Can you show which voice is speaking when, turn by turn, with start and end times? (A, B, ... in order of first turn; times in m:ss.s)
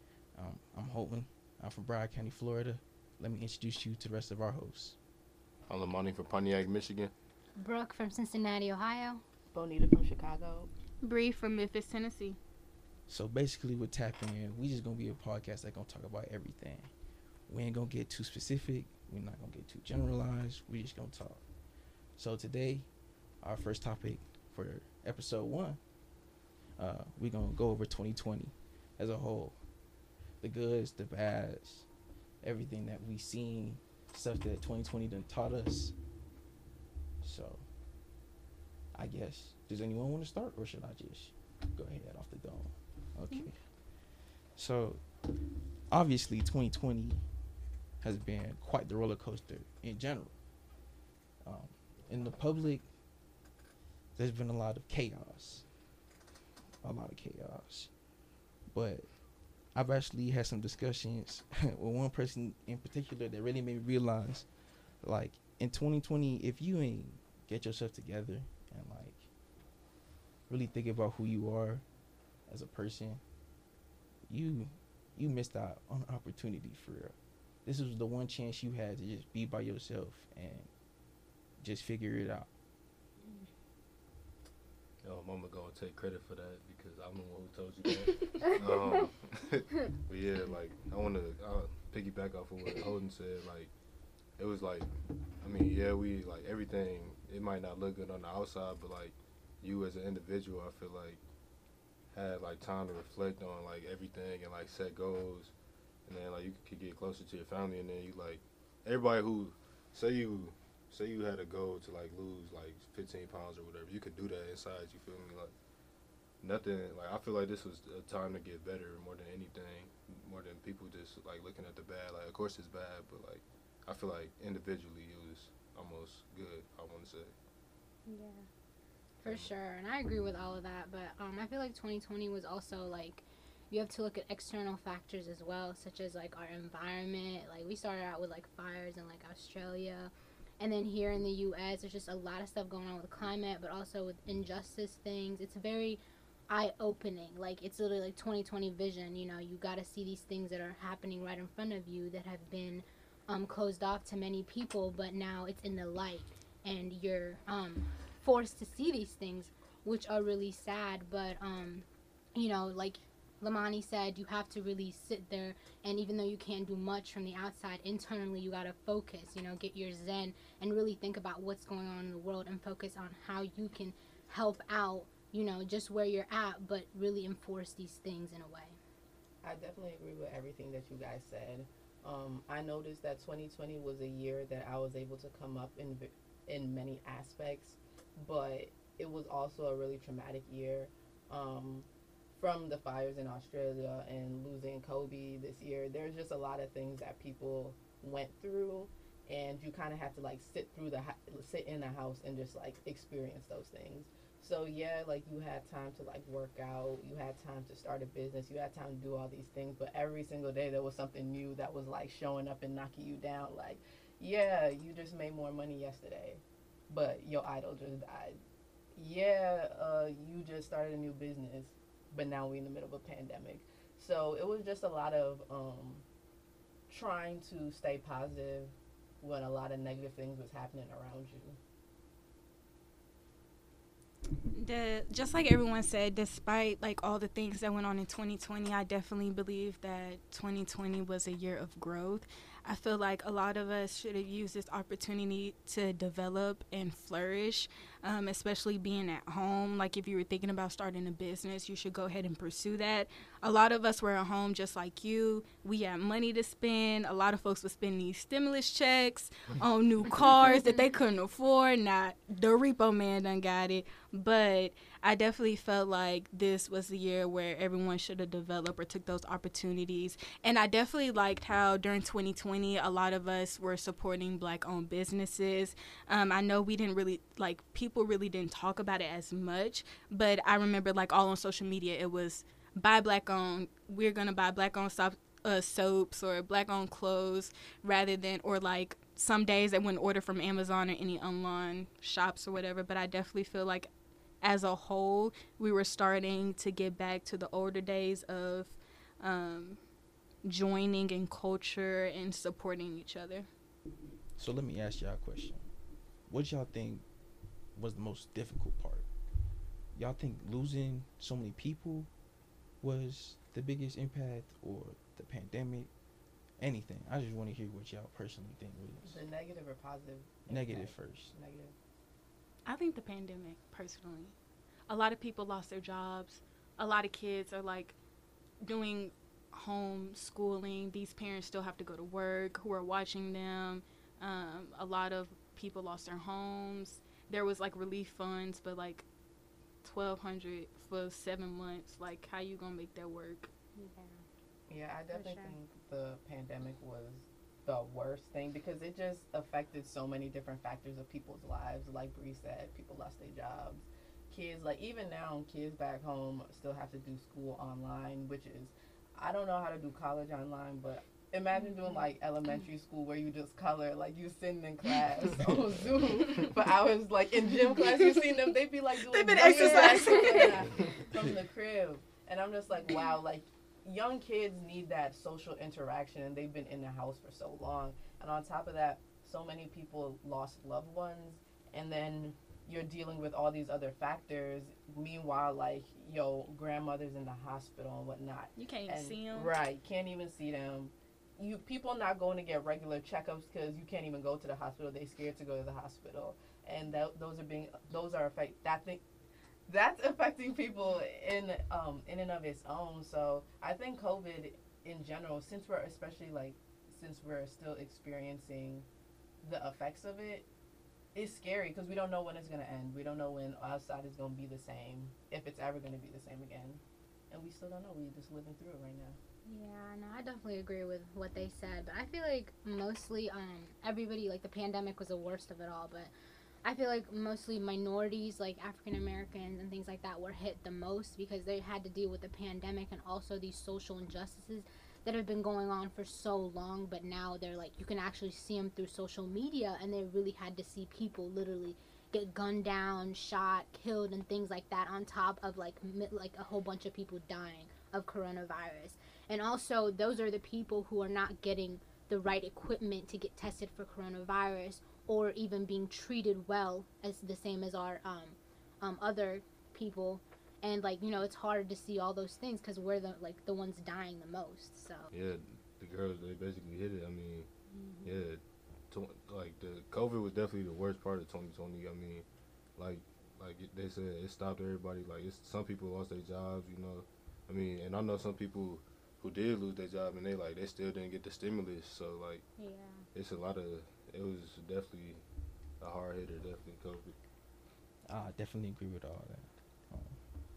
0:00.4-0:05.0 A
0:05.7-0:07.1 B
0:07.6-0:09.2 C
0:09.5-0:10.7 D
0:11.0-0:12.4 E
0:13.1-0:16.9 A
0:17.5-0:21.4 A
0:22.2-0:22.9 A
0:23.4-0:25.8 A
0:26.8-0:29.6 A
0:30.4-0:31.9 A
0:32.4-0:36.0 A
0:37.2-0:37.7 A
0:38.9-0:45.2 A
0:45.9-0:47.2 A
0:48.0-0:50.4 A
0:51.4-0:52.9 A
0:54.2-0:55.7 A
0:56.8-0:57.9 A
0:58.7-1:04.5 A
1:05.0-1:09.3 A
1:10.5-1:11.8 A
1:12.5-1:13.2 A
1:14.3-1:20.7 A
1:21.6-1:22.5 A
1:25.0-1:33.7 B
1:34.4-1:41.2 B
1:42.1-1:45.5 B
1:46.1-1:55.5 B
1:56.4-2:07.3 B
2:08.1-2:08.4 C
2:09.2-2:58.8 C
2:09.2-2:09.5 B
2:59.4-3:38.4 D
3:39.0-3:46.0 D
3:46.9-3:51.6 D
3:54.5-4:53.9 E
4:54.4-4:59.8 E
5:00.4-5:03.5 E
5:04.4-5:05.7 A
5:06.3-5:07.0 A
5:07.8-5:09.1 A
5:10.0-5:12.1 A
5:12.8-5:15.9 A
5:16.6-5:19.2 A
5:19.0-5:21.7 D
5:20.5-5:21.3 A
5:22.7-5:24.3 E
5:24.9-5:28.0 E
5:28.6-5:39.1 E
5:39.8-5:43.5 E
5:43.8-5:44.2 C
5:44.7-6:39.0 D
5:45.1-5:45.6 C
6:01.6-6:02.1 C
6:09.1-6:10.8 E
6:09.4-6:10.5 C
6:10.9-6:11.2 A
6:28.6-6:29.5 E
6:39.7-6:48.9 D
6:49.4-6:50.5 D
6:51.2-6:59.2 D
6:59.5-7:06.1 C
7:06.6-7:45.1 C
7:45.1-7:47.5 B
7:47.7-7:48.1 C
7:48.0-8:02.4 B
8:02.6-8:03.1 C
8:03.1-8:05.2 B
8:05.8-8:07.2 B
8:08.1-8:10.2 A